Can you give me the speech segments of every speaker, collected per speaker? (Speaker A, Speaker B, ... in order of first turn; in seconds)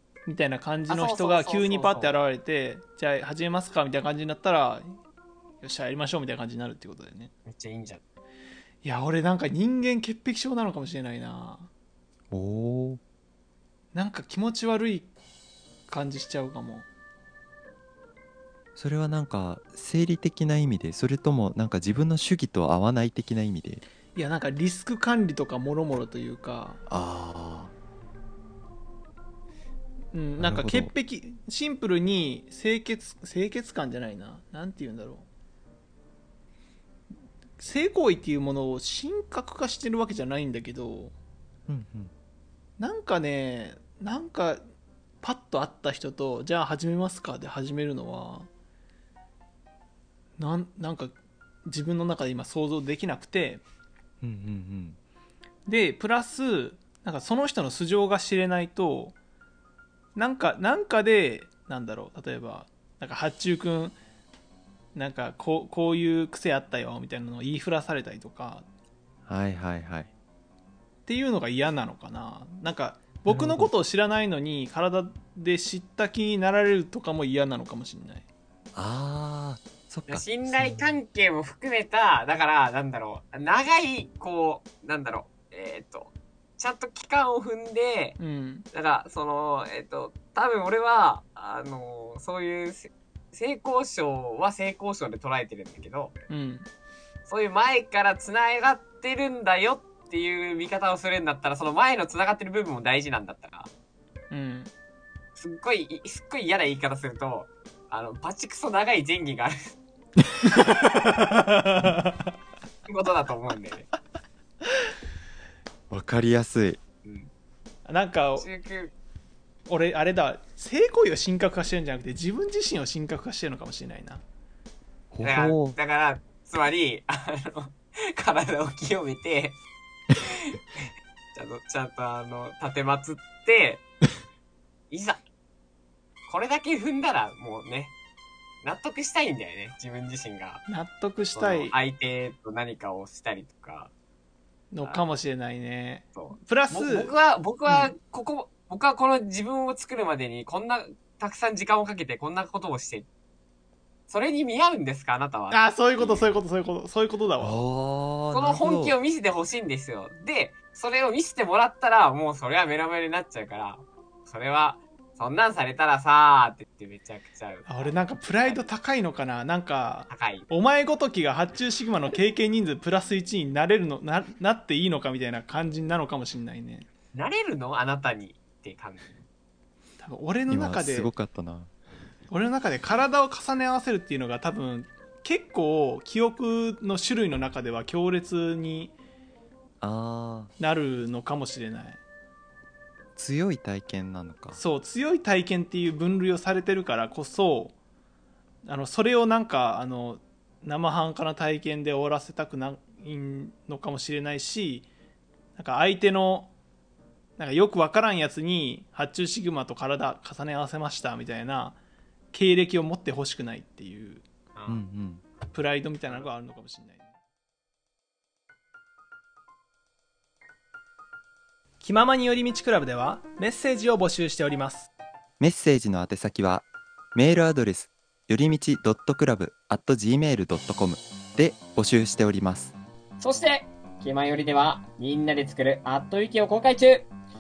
Speaker A: 0.3-4.9, 5.6-7.3, 8.8-11.7, 13.9-15.1, 15.9-16.9, 24.1-26.8, 30.1-35.3, 37.6-41.1, 42.8-44.6, 45.2-48.5, 50.4-53.6, 55.7-59.1, 60.2-64.0, 65.0-68.7, 71.1-78.2, 88.2-88.7, 96.3-96.7, 104.3-104.7, 110.6-112.3, 117.8-118.5, 119.7-124.2, 140.7-141.8, 144.7-147.2, 147.7-147.9, 155.5-157.6, 167.7-176.9, 180.0-181.1, 182.3-188.9, 190.6-192.0, 194.6-197.8, 198.7-204.9, 205.6-206.5, 207.4-211.8, 212.3-214.2, 215.5-217.1, 221.8-224.9
Speaker B: 0.9-2.2, 7.5-8.0, 80.1-88.2, 88.7-96.2, 97.3-103.7, 105.4-109.7, 112.9-113.9, 117.0-117.3, 118.4-118.9, 125.2-129.6, 130.2-133.8, 134.9-135.2, 136.3-137.9, 138.6-140.6, 141.3-143.9, 146.2-153.1, 154.1-156.4, 158.3-168.7, 170.1-170.5, 177.1-179.1, 214.6-214.8, 233.2-237.1
Speaker C: 12.3-13.0, 18.8-23.8, 26.9-27.7, 30.4-30.9, 41.7-42.1, 54.2-55.0, 69.3-70.1, 73.3-73.7, 78.8-80.9, 115.9-116.8, 125.1-125.8, 157.4-159.0, 180.5-181.7, 189.8-190.5, 193.2-194.6, 214.7-215.2, 225.4-232.7